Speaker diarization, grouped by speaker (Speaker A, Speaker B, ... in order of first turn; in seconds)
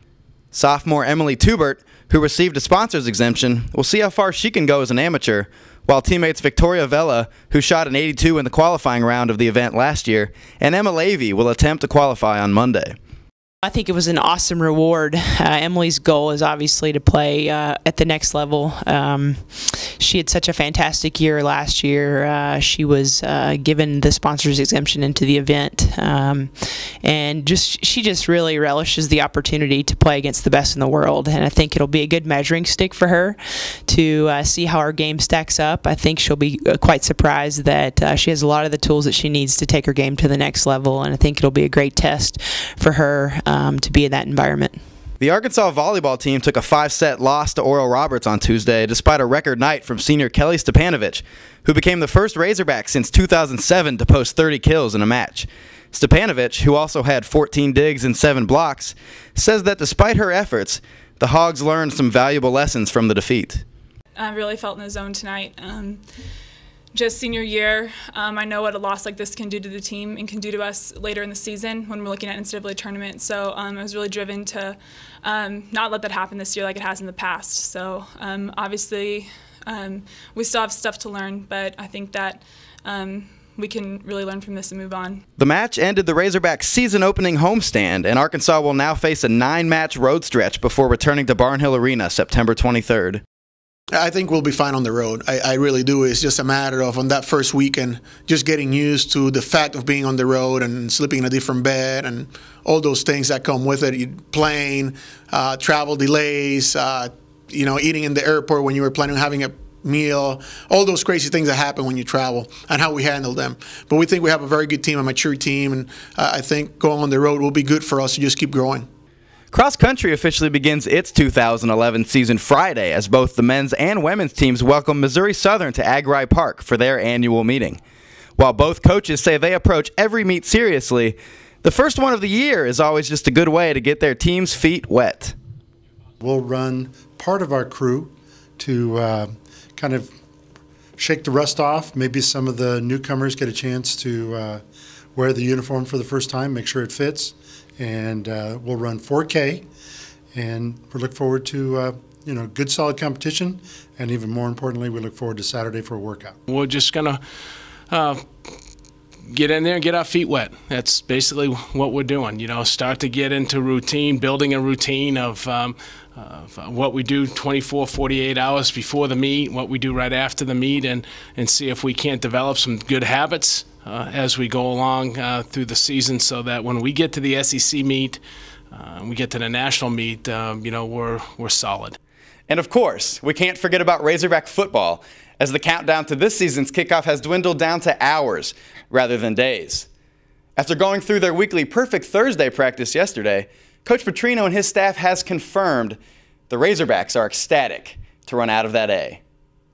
Speaker A: 0.5-12.9, 45.2-63.6, 85.4-93.2, 119.5-127.8, 128.4-135.3, 182.5-189.9, 190.6-196.0, 196.5-199.2
Speaker B: 13.6-44.8
Speaker C: 64.2-66.0, 66.9-85.2
Speaker D: 93.9-118.9
Speaker E: 136.2-140.1, 141.0-144.6, 145.1-149.7, 150.3-156.4
Speaker F: 156.5-157.2, 157.9-158.2, 159.2-182.0